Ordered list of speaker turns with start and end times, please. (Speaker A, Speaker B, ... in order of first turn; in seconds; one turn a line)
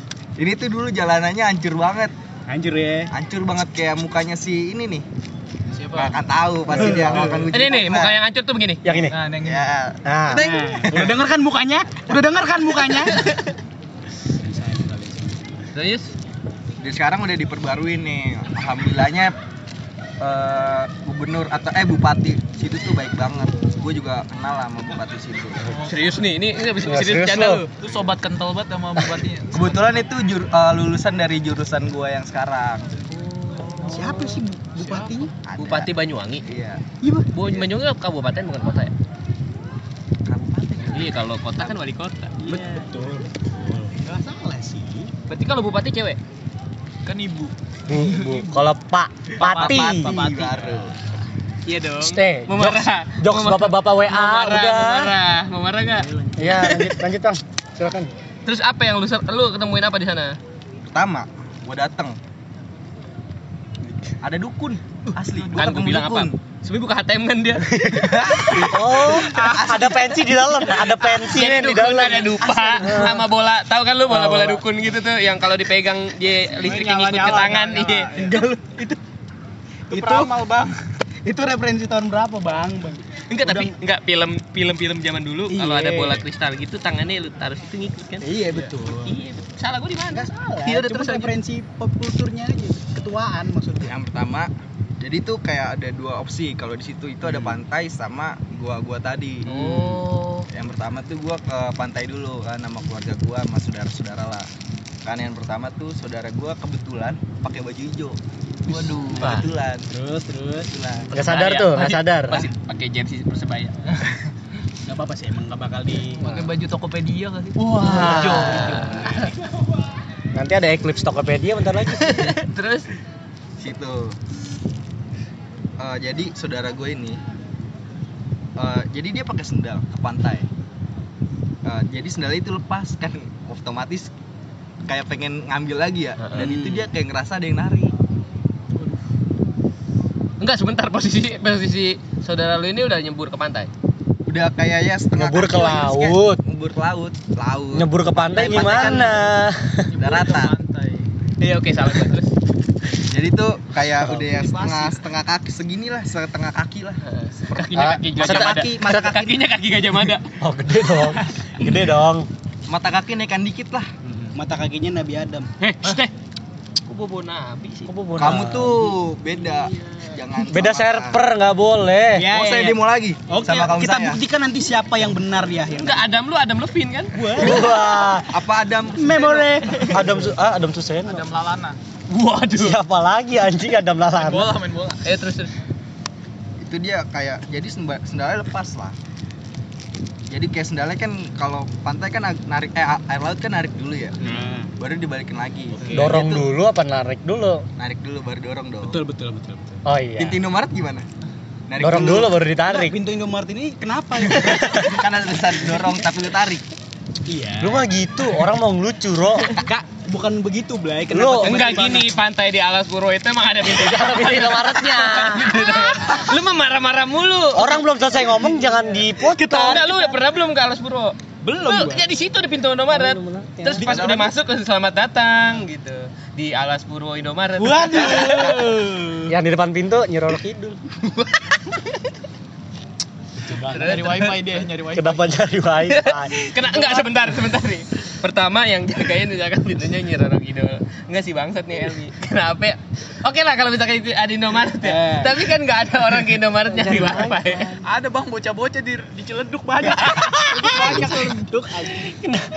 Speaker A: 0.4-2.1
Speaker B: 2.5-3.1
Speaker A: 3.1-5.0
Speaker C: 5.7-6.2
Speaker A: 5.9-8.2
Speaker B: 6.7-7.5
Speaker D: 6.8-7.3
Speaker E: 7.5-9.0
Speaker D: 8.8-9.2
Speaker C: 9.1-9.7
Speaker A: 9.4-11.2
Speaker D: 10.0-10.5
Speaker B: 10.3-13.3
Speaker B: 14.4-15.6
Speaker E: 15.7-16.1
Speaker A: 16.8-19.3
Speaker A: 20.2-25.7
Speaker C: 25.7-26.0
Speaker E: 25.8-27.7
Speaker D: 26.8-27.6
Speaker C: 27.8-29.9
Speaker A: 29.5-32.9
Speaker E: 33.4-34.1
Speaker B: 33.8-35.3
Speaker C: 34.8-35.3
Speaker A: 35.4-35.9
Speaker E: 35.6-36.5
Speaker A: 36.4-36.8
Speaker B: 37.0-37.3
Speaker E: 37.3-38.9
Speaker A: 40.2-41.2
Speaker E: 40.9-42.4
Speaker B: 42.4-45.1
Speaker E: 45.3-46.2
Speaker C: 47.0-48.7
Speaker D: 47.9-50.2
Speaker A: 49.4-50.9
Speaker C: 49.4-49.8
Speaker B: 49.7-51.0
Speaker E: 51.6-56.1
Speaker D: 52.0-55.1
Speaker B: 56.0-56.6
Speaker D: 56.4-58.1
Speaker E: 56.6-56.9
Speaker E: 58.5-60.4
Speaker A: 60.9-62.2
Speaker A: 64.2-66.3
Speaker E: 65.5-68.2
Speaker A: 67.8-69.2
Speaker D: 68.5-73.3
Speaker C: 69.2-69.9
Speaker E: 71.2-78.2
Speaker B: 72.5-72.9
Speaker D: 74.1-74.6
Speaker C: 76.6-78.4
Speaker B: 76.6-79.0
Speaker C: 79.9-80.8
Speaker B: 79.9-80.3
Speaker B: 81.2-83.7
Speaker E: 83.3-91.3
Speaker B: 85.5-86.2
Speaker B: 88.2-89.2
Speaker B: 90.1-93.9
Speaker A: 93.8-104.5
Speaker B: 97.2-97.5
Speaker E: 99.4-100.5
Speaker A: 105.0-109.9
Speaker E: 109.1-109.5
Speaker B: 109.9-111.0
Speaker D: 111.1-112.5
Speaker E: 111.1-114.0
Speaker B: 114.9-116.3
Speaker C: 116.2-119.1
Speaker E: 117.6-119.3
Speaker D: 117.8-118.6
Speaker B: 117.8-119.3
Speaker D: 120.3-122.3
Speaker E: 121.9-122.9
Speaker A: 123.6-124.2
Speaker A: 125.8-127.2
Speaker A: 128.6-130.5
Speaker A: 131.6-134.1
Speaker A: 134.8-137.9
Speaker E: 136.2-136.5
Speaker B: 136.3-136.9
Speaker E: 140.4-143.7
Speaker A: 144.2-149.2
Speaker D: 145.1-146.4
Speaker D: 147.7-149.9
Speaker C: 148.5-149.0
Speaker C: 149.9-151.1
Speaker A: 150.0-150.6
Speaker E: 151.4-152.3
Speaker A: 153.1-157.0
Speaker C: 154.2-155.0
Speaker E: 157.0-160.3
Speaker D: 157.7-158.7
Speaker A: 157.8-159.4
Speaker D: 160.4-162.3
Speaker A: 162.7-163.9
Speaker B: 164.3-165.5
Speaker E: 165.6-166.1
Speaker E: 166.9-167.9
Speaker D: 167.8-168.8
Speaker A: 168.2-171.2
Speaker D: 170.4-172.3
Speaker B: 172.1-176.1
Speaker A: 172.3-174.2
Speaker E: 175.7-177.1
Speaker B: 177.1-177.8
Speaker D: 177.3-178.3
Speaker A: 177.4-180.1
Speaker B: 178.9-180.2
Speaker D: 179.9-181.2
Speaker C: 181.1-181.8
Speaker E: 182.1-182.8
Speaker D: 182.5-184.6
Speaker C: 184.2-185.1
Speaker E: 185.0-185.5
Speaker A: 186.6-188.9
Speaker A: 190.3-196.5
Speaker B: 194.2-194.7
Speaker B: 195.7-196.2
Speaker D: 195.9-197.7
Speaker A: 197.8-199.0
Speaker B: 198.8-199.8
Speaker D: 199.8-200.4
Speaker A: 200.2-201.1
Speaker A: 201.7-202.4
Speaker D: 201.8-203.0
Speaker B: 202.7-204.8
Speaker A: 204.3-206.7
Speaker D: 204.4-204.9
Speaker B: 207.3-207.9
Speaker D: 207.6-209.5
Speaker B: 209.6-212.1
Speaker D: 211.1-211.7
Speaker E: 211.4-217.8
Speaker D: 213.7-215.8
Speaker D: 217.5-219.9
Speaker B: 218.6-220.2
Speaker E: 219.5-228.7
Speaker B: 221.4-222.0
Speaker D: 222.9-224.0
Speaker A: 223.8-224.3
Speaker B: 227.6-229.3
Speaker D: 229.3-230.8
Speaker B: 233.4-234.1
Speaker C: 233.7-235.3
Speaker E: 233.7-234.5
Speaker D: 234.9-236.5
Speaker E: 235.9-247.8
Speaker B: 244.8-245.4
Speaker D: 246.7-247.7
Speaker C: 247.8-251.6
Speaker E: 249.9-250.9
Speaker B: 250.5-252.1
Speaker D: 250.8-251.1